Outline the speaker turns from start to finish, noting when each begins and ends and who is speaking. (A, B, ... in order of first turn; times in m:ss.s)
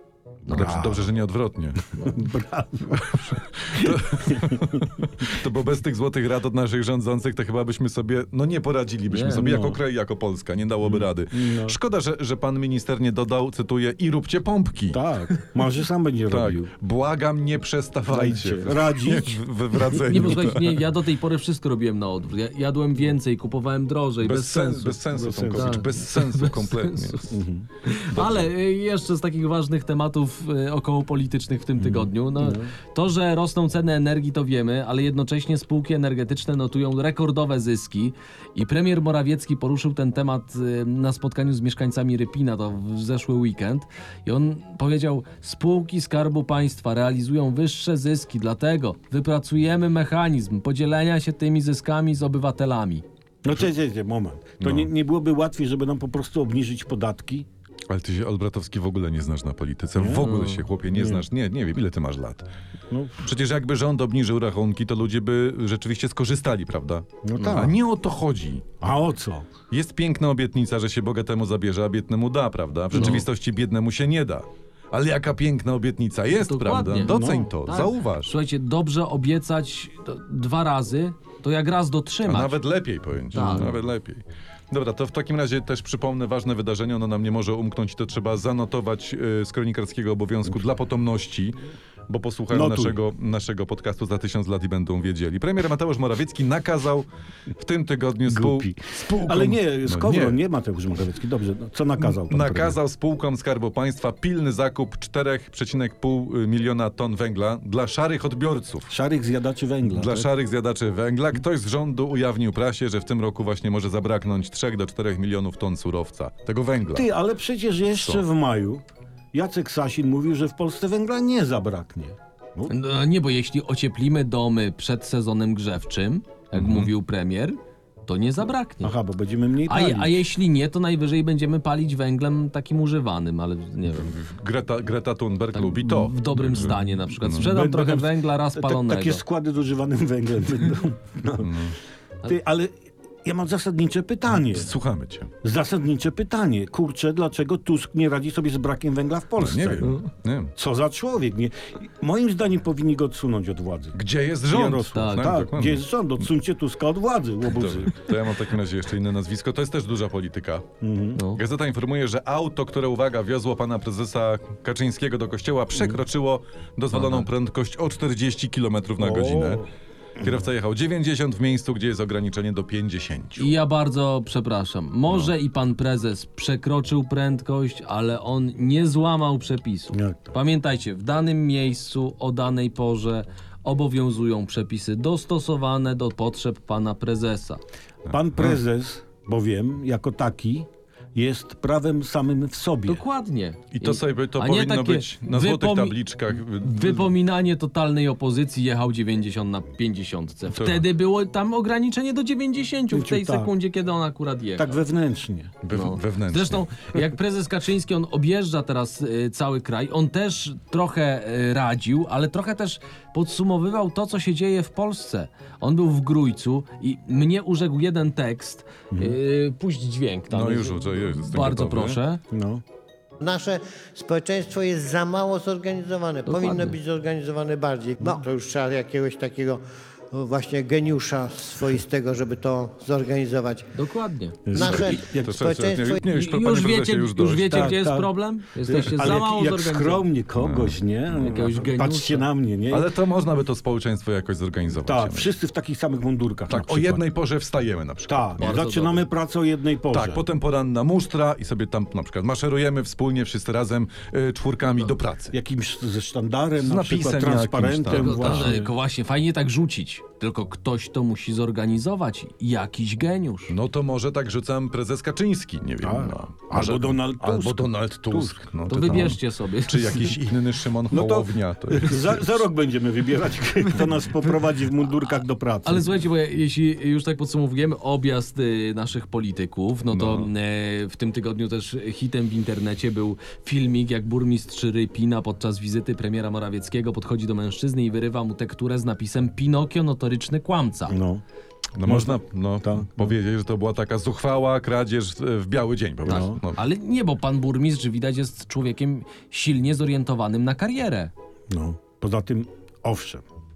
0:00.5-0:00.9 A
0:00.5-0:01.9 B
0:00.5-0:01.1 C
0:01.9-0:05.3 C
0:03.2-0:15.0 B
0:09.1-0:09.5 A
0:09.3-0:09.8 C
0:10.8-0:11.8 C
0:14.9-0:16.7 C
0:16.3-0:20.8 B
0:18.1-0:20.4 C
0:20.0-0:53.0 A
0:24.2-0:27.4 B
0:25.1-0:26.0 C
0:27.3-0:27.7 C
0:28.1-0:28.5 B
0:31.8-0:32.7 C
0:53.4-0:57.5 C
0:54.6-0:54.9 B
0:57.9-1:02.5 B
1:00.0-1:00.3 C
1:00.2-1:00.6 A
1:00.9-1:01.2 C
1:02.9-1:03.3 C
1:03.2-1:08.7 B
1:07.2-1:07.8 C
1:07.4-1:07.7 A
1:08.8-1:09.5 C
1:09.7-1:18.3 B
1:12.9-1:13.3 A
1:13.0-1:13.2 C
1:16.4-1:22.6 A
1:17.0-1:17.5 C
1:22.3-1:37.1 B
1:23.3-1:23.7 A
1:23.4-1:23.8 C
1:32.5-1:33.0 C
1:37.6-1:40.4 B
1:38.3-1:42.8 C
1:42.0-1:48.9 B
1:48.9-1:50.3 C
1:49.9-1:57.1 B
1:56.9-2:02.7 C
1:58.0-1:58.2 B
2:02.7-2:09.0 A
2:06.5-2:06.9 B
2:08.8-2:10.2 C
2:09.7-2:14.1 A
2:13.9-2:17.5 B
2:15.5-2:19.2 A
2:17.4-2:21.6 C
2:21.4-2:21.8 B
2:22.2-2:24.7 C
2:24.4-2:25.3 B
2:25.4-2:30.0 C
2:29.4-2:30.5 B
2:30.6-2:34.0 C
2:34.0-2:35.9 B
2:34.5-2:37.9 C
2:34.9-2:35.4 A
2:37.5-2:40.7 B
2:40.8-2:41.2 C
2:41.2-2:41.4 A
2:41.3-2:49.6 B
2:46.9-2:47.3 A
2:49.0-2:49.7 C
2:50.2-2:53.5 B
2:53.4-3:07.6 A
2:59.9-3:00.3 C
3:08.1-3:08.5 B
3:08.1-3:13.0 C
3:12.9-3:24.8 A
3:13.7-3:17.2 B
3:20.5-3:20.9 B
3:22.9-3:23.5 C
3:24.6-3:25.6 C
3:25.6-3:26.7 B
3:25.7-3:42.2 A
3:38.9-3:39.2 C
3:40.3-3:42.0 B
3:42.3-3:42.6 C
3:43.2-3:53.7 D
3:46.3-3:46.8 A
3:53.7-3:55.0 A
3:54.5-3:55.0 C
3:54.5-3:56.0 D
3:54.6-3:57.8 B
3:56.1-4:00.1 A
3:57.5-3:58.1 C
3:58.6-4:02.9 C
4:00.4-4:01.4 B
4:01.2-4:02.3 A
4:02.7-4:05.3 B
4:04.7-4:07.1 C
4:06.5-4:08.6 B
4:08.1-4:10.2 C
4:08.4-4:09.0 A
4:09.9-4:15.3 B
4:15.3-4:18.7 C
4:16.6-4:18.6 B
4:17.9-4:23.5 A
4:23.5-4:32.3 B
4:25.8-4:28.4 C
4:28.7-4:30.0 A
4:30.9-4:35.9 C
4:35.6-4:51.0 A
4:39.9-4:40.3 B
4:50.9-4:51.2 C
4:51.8-4:56.6 B
4:51.8-4:53.2 C
4:56.1-4:56.4 C
4:56.1-5:01.1 A
5:01.5-5:03.2 C